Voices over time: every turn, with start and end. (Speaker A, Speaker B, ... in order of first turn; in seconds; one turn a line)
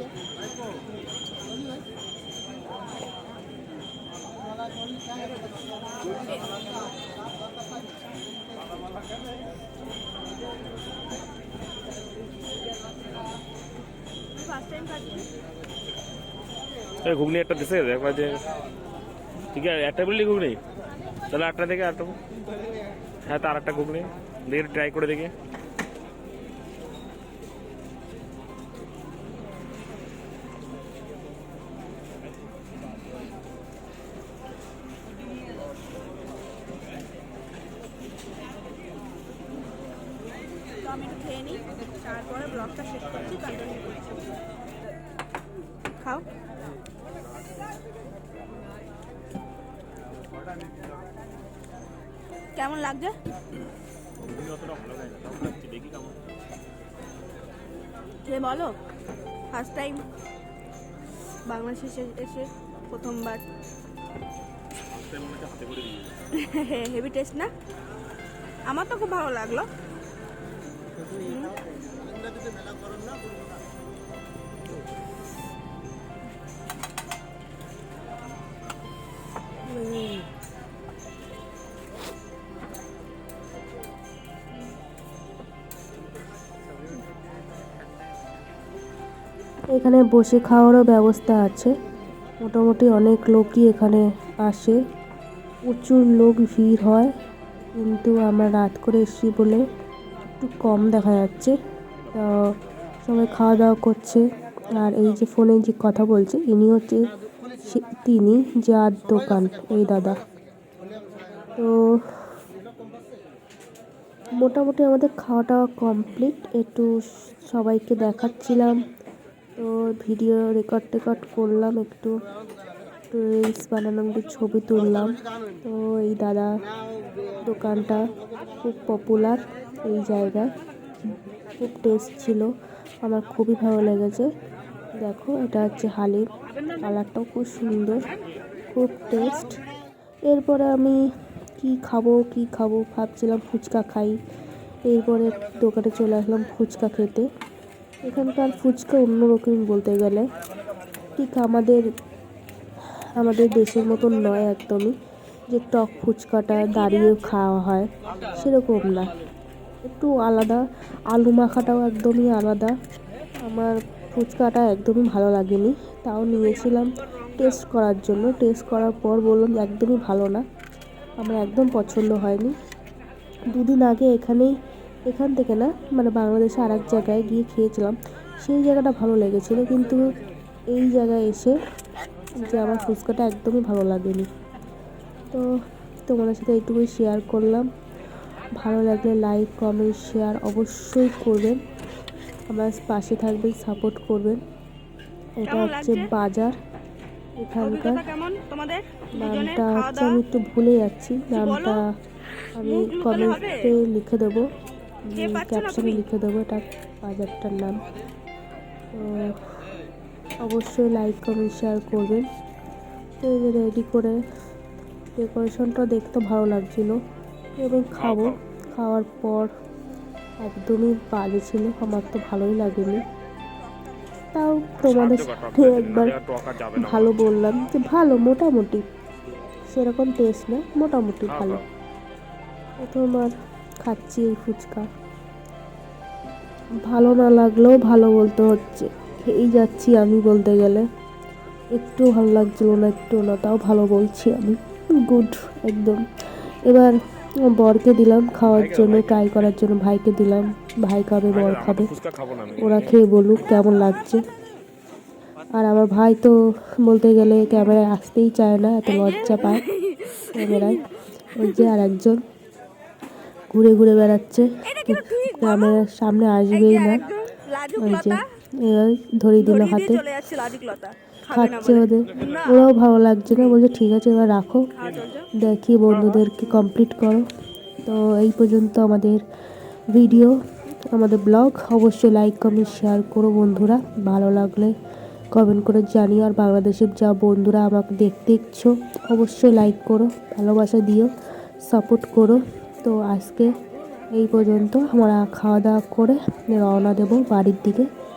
Speaker A: 6.0-6.5
Speaker A: 14.4-15.3
Speaker B: 17.0-18.4
Speaker B: 19.5-20.6
Speaker B: 21.3-22.1
Speaker B: 23.2-25.3
Speaker A: 40.8-44.3
Speaker A: 52.5-53.1
Speaker B: 54.2-56.2
Speaker A: 58.2-58.7
Speaker A: 59.5-60.0
Speaker A: 61.4-63.4
Speaker B: 64.9-66.2
Speaker A: 66.3-67.5
Speaker A: 68.7-69.7
Speaker A: 71.2-71.6
Speaker C: 89.7-91.7
Speaker C: 92.4-94.8
Speaker C: 95.7-97.1
Speaker C: 97.8-99.6
Speaker C: 100.4-101.5
Speaker C: 102.1-102.5
Speaker C: 103.0-104.2
Speaker C: 104.8-107.0
Speaker C: 107.6-110.2
Speaker C: 111.5-112.2
Speaker C: 114.4-116.9
Speaker C: 117.5-118.8
Speaker C: 119.6-122.1
Speaker C: 123.1-126.5
Speaker C: 127.5-128.0
Speaker C: 128.6-130.5
Speaker C: 131.6-132.5
Speaker C: 133.0-134.3
Speaker C: 135.0-136.3
Speaker C: 136.8-138.1
Speaker C: 138.7-139.6
Speaker C: 140.3-141.0
Speaker C: 141.6-144.1
Speaker C: 144.8-147.2
Speaker C: 148.0-150.3
Speaker C: 151.2-151.8
Speaker C: 153.2-154.9
Speaker C: 155.5-159.1
Speaker C: 159.8-160.6
Speaker C: 161.1-162.7
Speaker C: 163.4-170.4
Speaker C: 171.2-172.5
Speaker C: 173.5-174.5
Speaker C: 175.1-180.1
Speaker C: 180.7-181.6
Speaker C: 182.3-184.3
Speaker C: 186.1-187.7
Speaker C: 188.6-191.6
Speaker C: 192.5-194.4
Speaker C: 195.4-196.5
Speaker A: 195.4-196.1
Speaker C: 197.4-198.0
Speaker A: 197.6-200.2
Speaker C: 199.2-201.8
Speaker A: 201.3-201.8
Speaker C: 202.6-204.5
Speaker A: 202.6-203.6
Speaker C: 205.1-207.8
Speaker A: 205.1-206.0
Speaker C: 208.9-209.4
Speaker C: 210.4-212.2
Speaker C: 213.2-214.2
Speaker C: 215.2-216.9
Speaker C: 217.6-219.5
Speaker B: 217.9-218.4
Speaker C: 220.4-223.1
Speaker A: 223.7-224.1
Speaker C: 224.3-226.2
Speaker B: 224.8-227.3
Speaker C: 226.8-228.8
Speaker C: 229.7-231.6
Speaker B: 231.2-231.6
Speaker C: 232.8-233.3
Speaker C: 233.8-234.9
Speaker C: 236.9-240.8
Speaker C: 241.7-244.6
Speaker C: 245.1-246.0
Speaker C: 246.7-246.9
Speaker C: 247.5-251.9
Speaker B: 248.5-249.5
Speaker B: 251.3-253.0
Speaker C: 252.6-254.2
Speaker C: 255.5-256.3
Speaker C: 256.9-259.6
Speaker A: 258.9-260.8
Speaker C: 260.3-260.8
Speaker C: 261.4-262.2
Speaker A: 261.4-261.7
Speaker C: 263.5-267.0
Speaker A: 264.6-265.8
Speaker A: 266.5-268.2
Speaker C: 267.8-270.0
Speaker A: 269.4-272.7
Speaker C: 271.3-274.7
Speaker A: 274.7-275.3
Speaker C: 275.4-277.2
Speaker C: 277.8-279.2
Speaker C: 279.9-280.3
Speaker C: 280.9-284.7
Speaker C: 285.3-291.1
Speaker C: 291.7-293.5
Speaker C: 294.1-297.9